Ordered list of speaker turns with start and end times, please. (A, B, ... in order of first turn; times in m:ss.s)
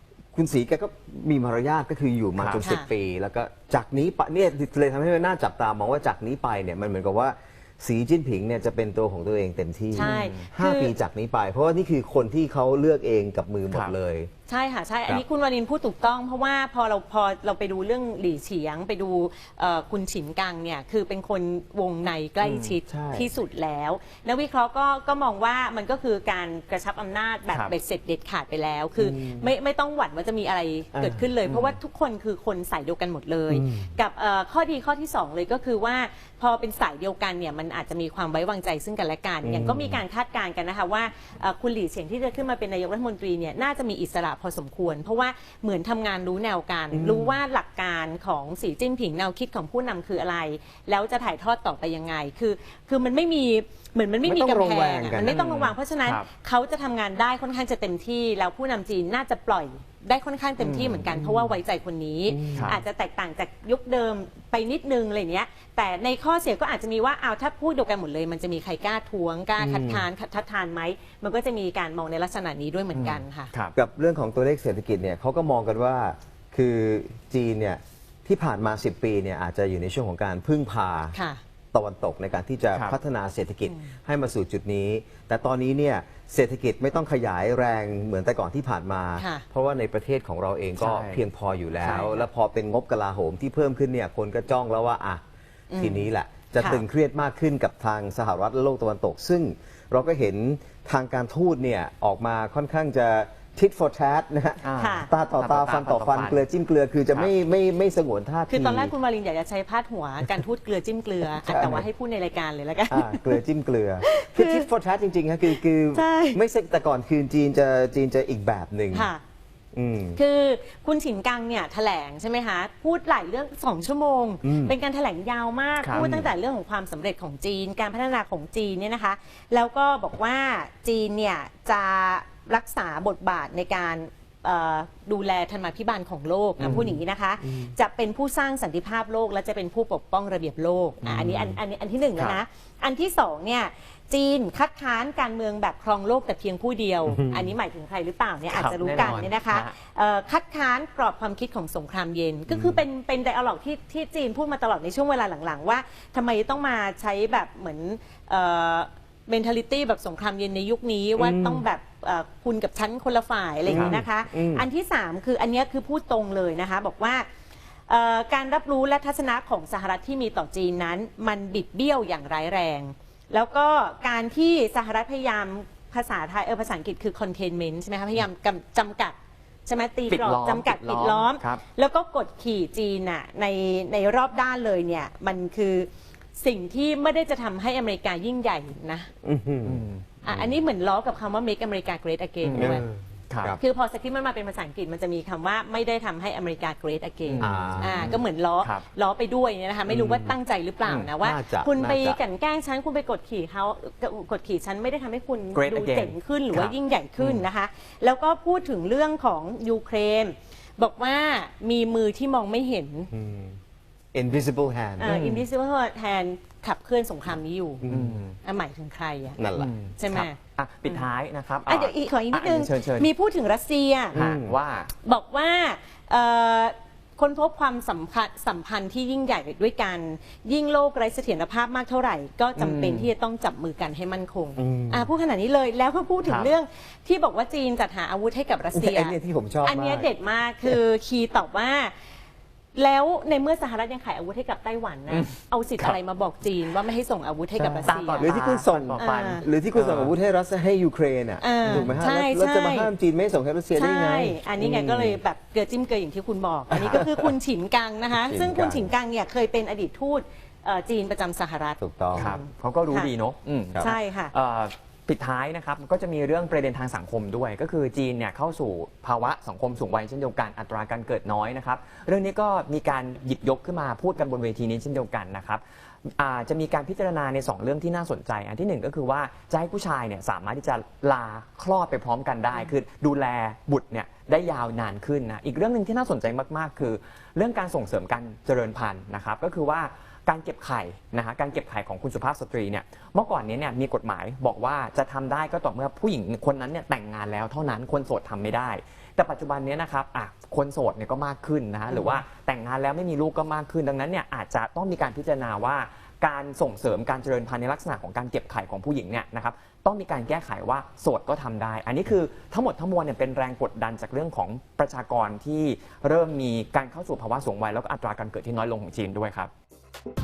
0:00.3-0:14.3 A
0:02.4-0:02.6 B
0:02.6-0:02.9 C
0:09.9-0:10.9 C
0:10.0-0:10.5 B
0:14.5-1:13.5 C
0:22.4-0:22.8 B
0:22.9-0:23.3 A
0:29.0-0:29.5 A
0:30.9-0:31.2 A
0:31.4-0:31.8 B
0:33.5-0:33.9 A
0:39.4-0:40.0 A
0:46.9-0:47.3 A
0:54.2-0:55.4 A
0:55.2-0:56.2 B
1:00.6-1:01.0 B
1:01.1-1:01.5 A
1:02.3-1:02.7 A
1:02.5-1:02.8 B
1:09.6-1:10.0 A
1:12.9-1:13.7 B
1:13.7-1:21.2 A
1:21.1-1:21.4 C
1:21.7-1:35.2 A
1:23.6-1:23.9 C
1:29.2-1:29.4 C
1:30.8-1:31.2 B
1:31.8-1:32.2 C
1:35.7-1:36.8 C
1:35.8-1:48.9 A
1:44.6-1:46.4 B
1:44.8-1:45.1 C
1:48.5-1:53.4 C
1:51.4-1:51.8 A
1:52.9-1:59.1 A
1:54.0-1:54.6 C
1:55.6-1:56.4 C
1:58.9-1:59.2 C
1:59.7-2:00.2 A
2:00.1-2:47.3 C
2:04.4-2:04.7 A
2:05.8-2:06.1 B
2:05.9-2:06.3 A
2:16.6-2:16.9 B
2:21.0-2:21.5 A
2:21.1-2:21.4 B
2:22.2-2:22.4 B
2:27.1-2:27.4 A
2:28.5-2:29.7 B
2:32.5-2:32.8 A
2:41.2-2:41.6 A
2:43.6-2:44.7 A
2:43.7-2:43.9 B
2:47.9-3:09.1 C
3:00.1-3:01.6 B
3:09.2-3:09.8 A
3:09.6-3:10.4 B
3:10.2-3:12.8 C
3:12.4-3:13.5 B
3:12.5-3:13.6 A
3:13.5-3:33.1 C
3:17.3-3:18.8 B
3:17.4-3:18.2 A
3:19.9-3:20.3 A
3:20.8-3:21.1 B
3:21.2-3:22.2 A
3:25.5-3:27.4 B
3:33.1-3:33.6 A
3:34.1-3:35.2 A
3:35.0-3:37.8 C
3:35.0-3:35.4 B
3:37.8-3:38.2 A
3:37.8-3:38.4 B
3:38.4-3:39.4 C
3:39.4-3:39.7 A
3:39.5-3:43.1 B
3:40.0-3:41.1 C
3:41.6-3:44.2 C
3:44.1-3:44.9 B
3:44.1-3:44.6 A
3:45.0-4:01.9 C
3:52.6-3:53.1 B
3:54.6-3:55.1 A
3:56.2-3:56.5 B
3:58.7-4:00.1 A
4:02.7-4:08.4 C
4:05.1-4:06.0 B
4:07.6-4:15.2 A
4:07.9-4:10.1 B
4:09.0-4:09.4 C
4:11.4-4:12.9 C
4:11.6-4:12.0 B
4:13.7-4:23.1 C
4:16.7-4:17.0 B
4:16.7-4:17.2 A
4:18.1-4:18.9 A
4:21.8-4:22.3 A
4:22.2-4:35.6 B
4:23.8-4:24.3 C
4:36.2-5:19.5 B